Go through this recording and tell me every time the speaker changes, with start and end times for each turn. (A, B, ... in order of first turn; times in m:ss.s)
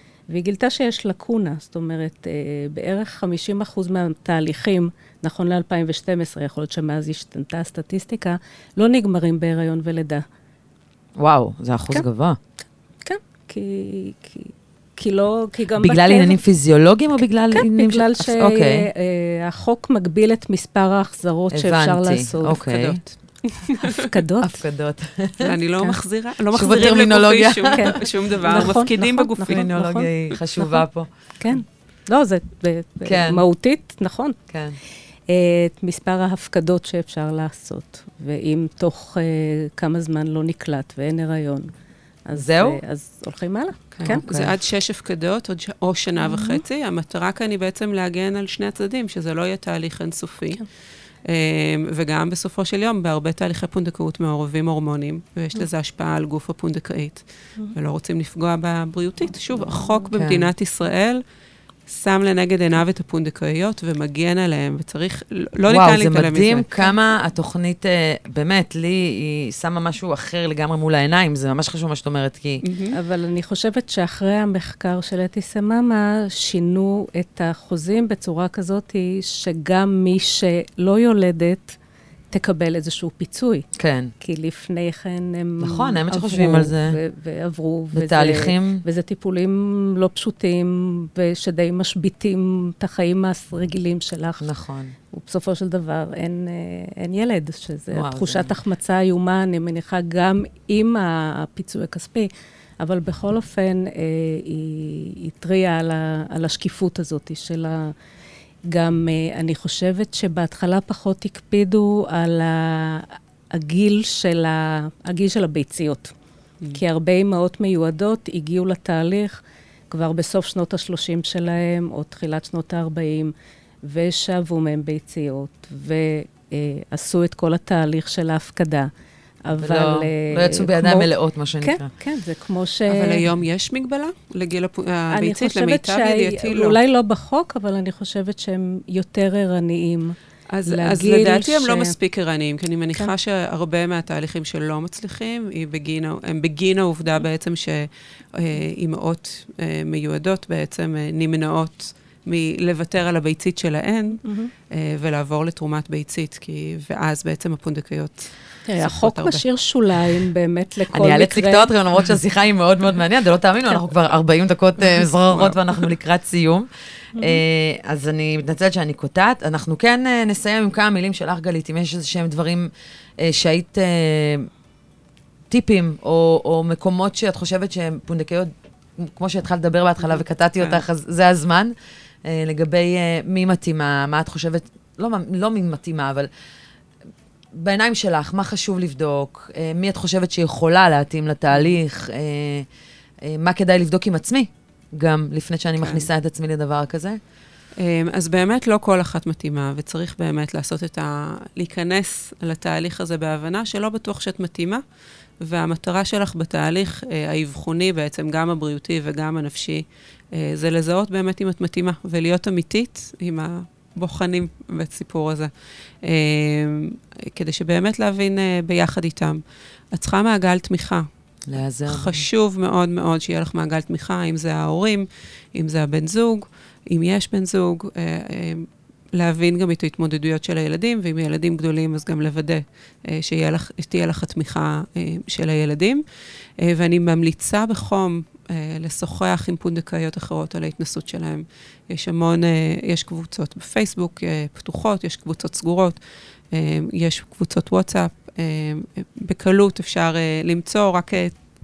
0:00.3-0:10.2 A
0:11.2-0:12.4 B
0:13.0-0:16.4 A
0:15.8-0:18.9 B
0:17.5-0:22.6 A
0:21.5-0:23.0 B
0:22.5-0:23.9 C
0:23.8-0:24.6 A
0:24.4-0:26.0 B
0:25.4-0:29.7 C
0:26.5-0:28.7 B
0:27.7-0:30.8 A
0:29.5-0:31.1 B
0:31.4-0:34.4 A
0:33.0-0:33.4 B
0:34.5-0:34.8 B
0:35.3-0:41.7 A
0:42.3-0:44.2 A
0:42.3-0:42.8 B
0:44.0-0:50.6 C
0:44.2-0:44.5 B
0:46.2-0:46.6 A
0:51.2-1:01.2 C
0:59.7-1:00.0 A
1:00.1-1:00.5 B
1:01.9-1:06.7 C
1:05.7-1:12.6 B
1:12.6-1:13.0 C
1:12.9-1:21.8 A
1:22.3-1:23.7 A
1:23.8-1:24.1 B
1:24.2-1:34.5 A
1:25.6-1:27.0 B
1:27.9-1:28.8 B
1:34.4-1:35.0 B
1:35.1-1:42.3 A
1:37.9-1:38.6 B
1:42.8-1:47.9 A
1:48.7-1:56.1 A
1:56.7-2:08.9 A
2:09.4-2:11.1 A
2:09.5-2:11.9 B
2:11.6-2:13.2 A
2:12.9-2:16.8 C
2:15.1-2:21.9 A
2:20.5-2:39.4 C
2:34.2-2:34.5 A
2:38.6-2:41.7 A
2:40.9-2:54.5 B
2:45.1-2:45.6 C
2:47.2-2:47.4 A
2:55.5-3:01.7 B
3:00.6-3:00.8 C
3:02.2-3:06.3 B
3:07.5-3:12.7 B
3:13.2-3:17.2 B
3:15.8-3:16.1 C
3:17.8-3:24.8 C
3:25.4-3:39.4 C
3:39.9-3:41.1 C
3:41.4-3:42.2 B
3:41.9-3:56.0 C
3:56.6-4:06.0 C
4:06.5-4:11.4 C